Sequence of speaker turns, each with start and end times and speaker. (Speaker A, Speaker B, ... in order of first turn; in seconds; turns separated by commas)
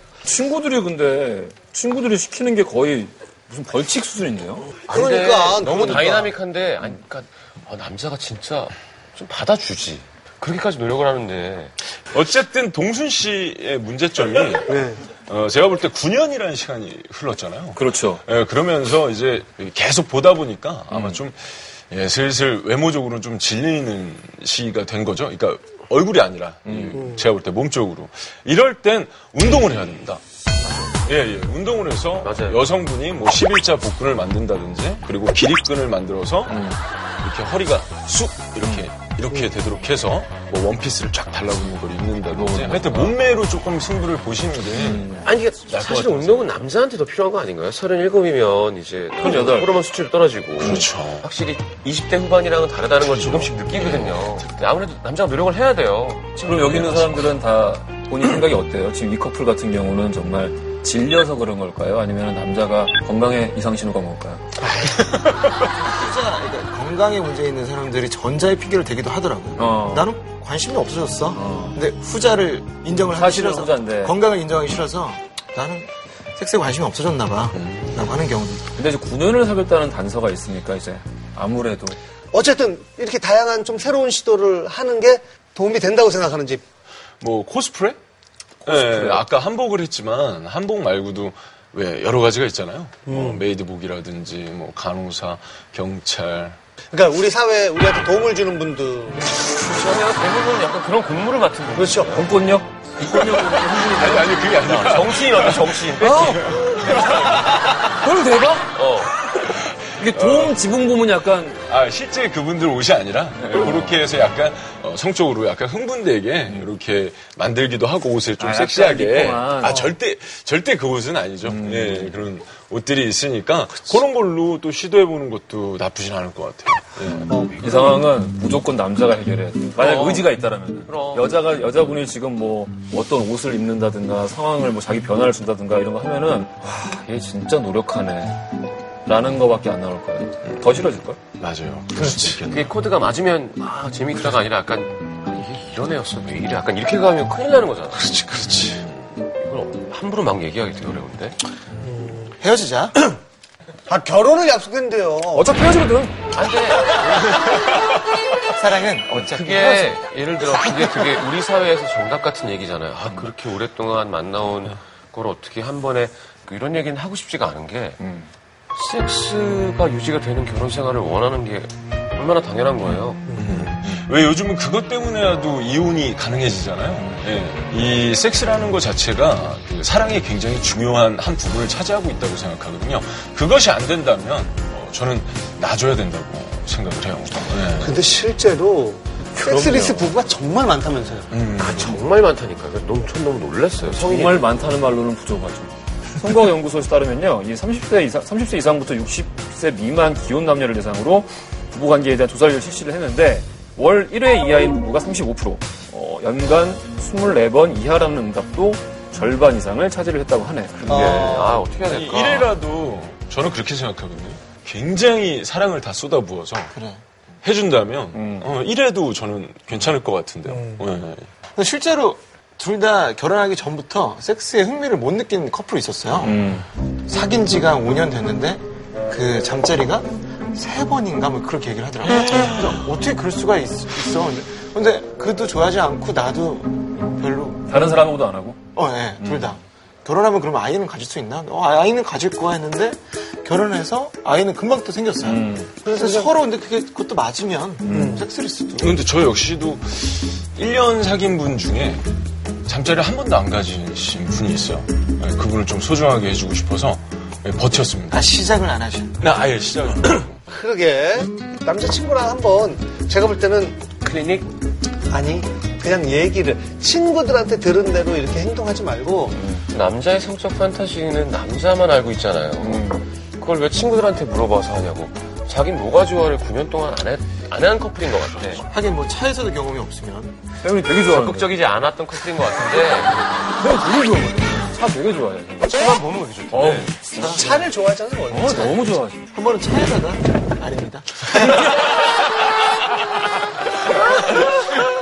Speaker A: 0.2-4.7, Speaker B: 4.9-11.7, Speaker C: 4.9-6.3, Speaker D: 12.1-30.2, Speaker C: 14.7-15.0, Speaker A: 17.7-18.2, Speaker A: 26.6-27.0, Speaker B: 30.6-30.9, Speaker D: 31.0-36.6, Speaker B: 32.2-32.7, Speaker A: 36.5-36.8, Speaker D: 37.2-46.5, Speaker A: 42.3-43.1, Speaker A: 44.7-45.3, Speaker B: 45.2-57.2, Speaker A: 49.2-49.7, Speaker D: 50.6-51.3, Speaker D: 53.1-54.4, Speaker A: 56.4-64.4, Speaker E: 65.8-78.6, Speaker A: 69.6-70.1, Speaker A: 71.3-71.8, Speaker A: 73.1-74.2, Speaker D: 77.6-78.1, Speaker A: 78.7-82.0, Speaker C: 82.3-86.6, Speaker D: 87.2-88.0, Speaker A: 88.6-89.2, Speaker D: 88.6-96.6, Speaker C: 93.1-93.4, Speaker C: 96.9-99.3, Speaker B: 99.4-102.3, Speaker C: 101.7-102.2, Speaker A: 102.0-104.8, Speaker D: 103.0-107.8, Speaker B: 104.6-107.7, Speaker A: 106.0-107.4, Speaker A: 107.9-108.8, Speaker B: 108.7-109.1, Speaker A: 109.3-111.6, Speaker D: 109.5-110.6, Speaker D: 111.7-127.4, Speaker A: 113.4-113.9, Speaker A: 118.4-119.8, Speaker A: 121.4-122.1, Speaker C: 127.3-127.6, Speaker A: 127.5-138.4, Speaker B: 129.8-130.3, Speaker B: 130.8-131.4, Speaker A: 139.0-141.2, Speaker D: 140.5-142.7, Speaker C: 141.9-142.4, Speaker B: 142.5-148.1, Speaker D: 147.9-149.1, Speaker B: 149.4-151.4, Speaker C: 151.8-152.3, Speaker E: 152.4-152.9, Speaker C: 153.9-155.5, Speaker A: 155.3-156.2, Speaker B: 156.3-157.5, Speaker E: 158.5-159.9, Speaker B: 159.1-168.0, Speaker A: 168.0-168.3, Speaker B: 168.7-173.2, Speaker D: 173.3-188.0, Speaker C: 187.8-191.3, Speaker A: 189.3-190.1, Speaker D: 191.3-192.0, Speaker B: 191.6-194.4, Speaker A: 193.8-211.5, Speaker C: 210.9-211.6, Speaker B: 210.9-212.5, Speaker D: 211.8-216.7, Speaker E: 216.7-217.0, Speaker D: 217.4-221.3, Speaker A: 218.1-218.5, Speaker C: 220.5-220.8, Speaker E: 221.6-226.4, Speaker A: 226.2-226.7, Speaker E: 227.1-237.7, Speaker A: 237.7-238.6, Speaker E: 238.8-249.0, Speaker A: 239.2-239.5, Speaker A: 245.2-245.7, Speaker C: 245.8-246.3, Speaker A: 247.8-248.2, Speaker C: 247.9-248.2, Speaker D: 248.8-252.0, Speaker D: 252.6-258.3, Speaker E: 258.1-259.1, Speaker D: 259.2-260.4, Speaker C: 260.5-263.9, Speaker B: 264.0-264.5, Speaker C: 265.1-269.4, Speaker A: 269.3-269.6, Speaker B: 269.7-272.9, Speaker A: 272.6-273.0, Speaker B: 273.4-278.6, Speaker E: 278.6-280.4, Speaker A: 280.6-281.5, Speaker B: 281.1-283.2, Speaker A: 283.6-285.9, Speaker B: 285.6-287.0, Speaker A: 286.5-287.4, Speaker C: 287.1-289.0, Speaker E: 287.1-287.6, Speaker A: 288.3-289.2, Speaker E: 289.3-291.8